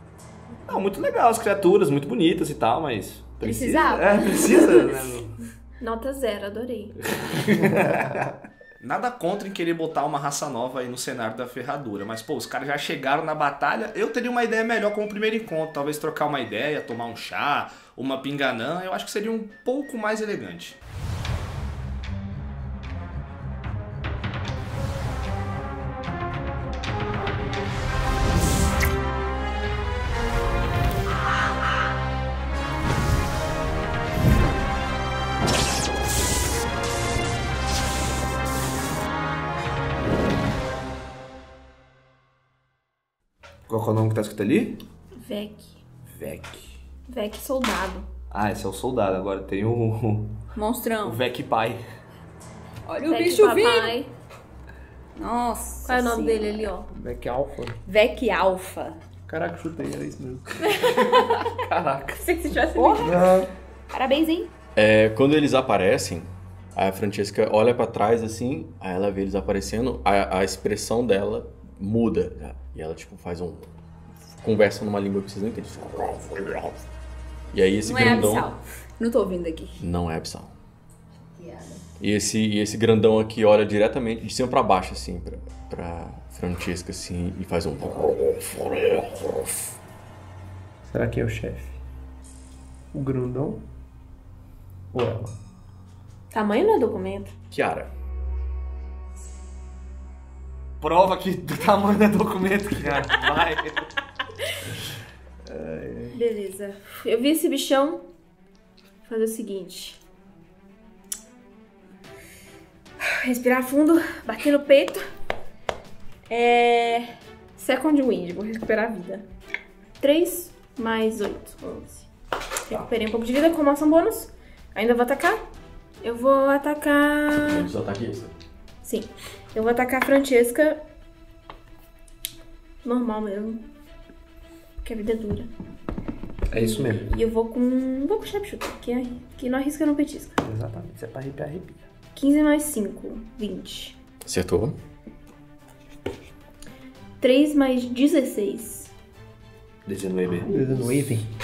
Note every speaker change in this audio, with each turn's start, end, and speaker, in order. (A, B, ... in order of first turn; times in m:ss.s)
0:00.7-0:05.4 A
0:03.4-0:05.1 B
0:05.8-0:07.0 C
0:07.1-0:20.8 A
0:07.6-0:08.3 D
0:43.7-0:44.8 A
0:45.2-0:45.8 C
0:46.0-0:46.8 A
0:47.1-0:48.1 C
0:48.3-0:50.4 A
0:50.5-0:51.2 B
0:51.0-0:51.8 A
0:52.9-0:54.0 B
0:53.0-0:54.1 C
0:55.2-0:56.8 B
0:55.8-0:56.9 C
0:56.9-0:57.8 D
0:57.8-0:59.0 B
0:59.3-1:01.1 D
1:00.6-1:01.4 C
1:01.6-1:02.2 A
1:02.1-1:03.2 C
1:02.7-1:04.5 B
1:03.0-1:03.5 D
1:04.8-1:13.7 E
1:14.4-1:16.8 E
1:17.5-1:18.5 E
1:17.8-1:19.8 B
1:19.8-1:20.5 E
1:21.4-1:21.8 B
1:22.0-1:29.8 E
1:30.9-1:31.8 D
1:32.9-1:33.6 D
1:34.9-1:35.3 D
1:36.3-1:37.3 C
1:37.5-1:37.9 E
1:40.8-1:43.9 A
1:45.4-1:46.2 D
1:46.1-1:48.0 C
1:49.0-1:50.0 C
1:53.1-1:55.0 C
1:56.3-1:59.2 C
2:00.0-2:02.1 C
2:02.7-2:05.4 C
2:06.0-2:07.7 C
2:07.4-2:08.3 E
2:08.8-2:10.8 C
2:12.8-2:13.6 C
2:14.8-2:15.5 C
2:16.5-2:17.1 A
2:16.5-2:20.4 C
2:20.4-2:21.8 A
2:22.1-2:24.0 C
2:24.2-2:24.8 E
2:27.2-2:28.9 C
2:29.8-2:30.9 A
2:30.3-2:31.3 D